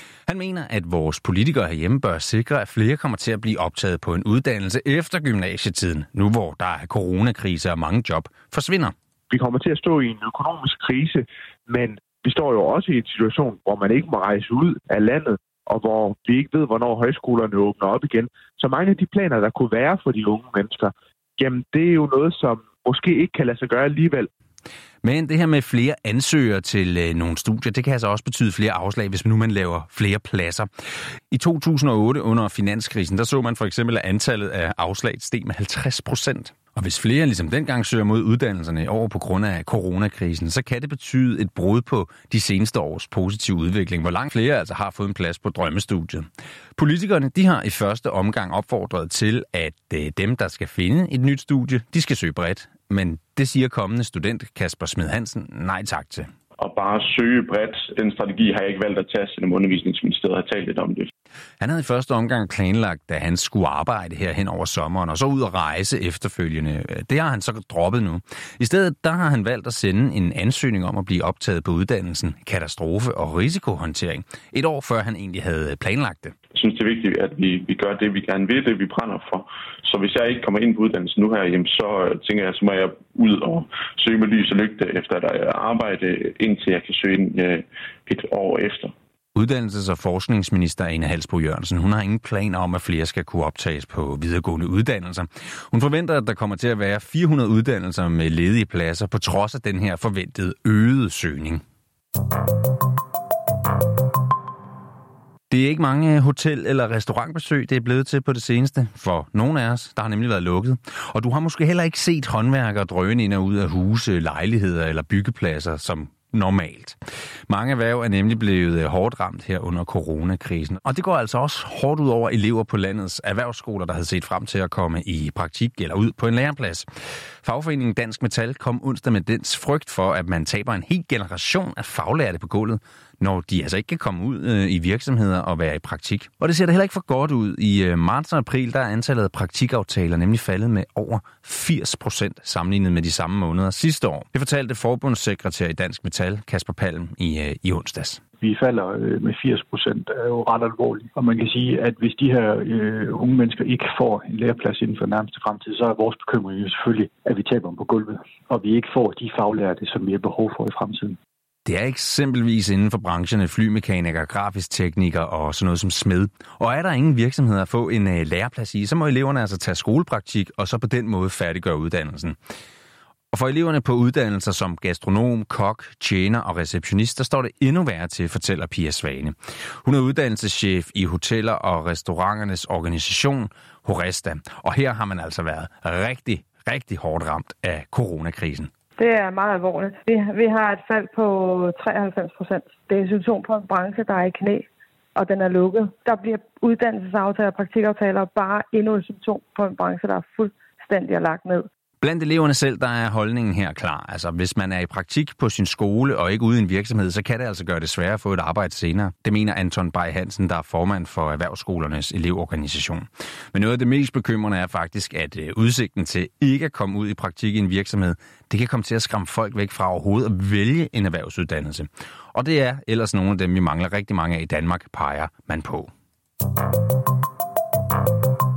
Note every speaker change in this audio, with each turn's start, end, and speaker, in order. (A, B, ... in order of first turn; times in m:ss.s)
0:00.3-0:08.9 A
0:09.3-0:24.3 B
0:25.0-0:30.7 A
0:31.3-0:56.3 A
0:56.6-1:01.1 C
1:01.6-1:16.3 A
1:16.5-1:28.9 C
1:29.4-1:41.6 A
1:45.5-1:57.0 A
1:57.5-2:06.8 A
2:07.4-2:28.2 A
2:28.4-2:41.2 D
2:41.7-2:52.4 A
2:53.3-3:08.7 A
3:09.0-3:21.7 E
3:22.0-3:45.9 A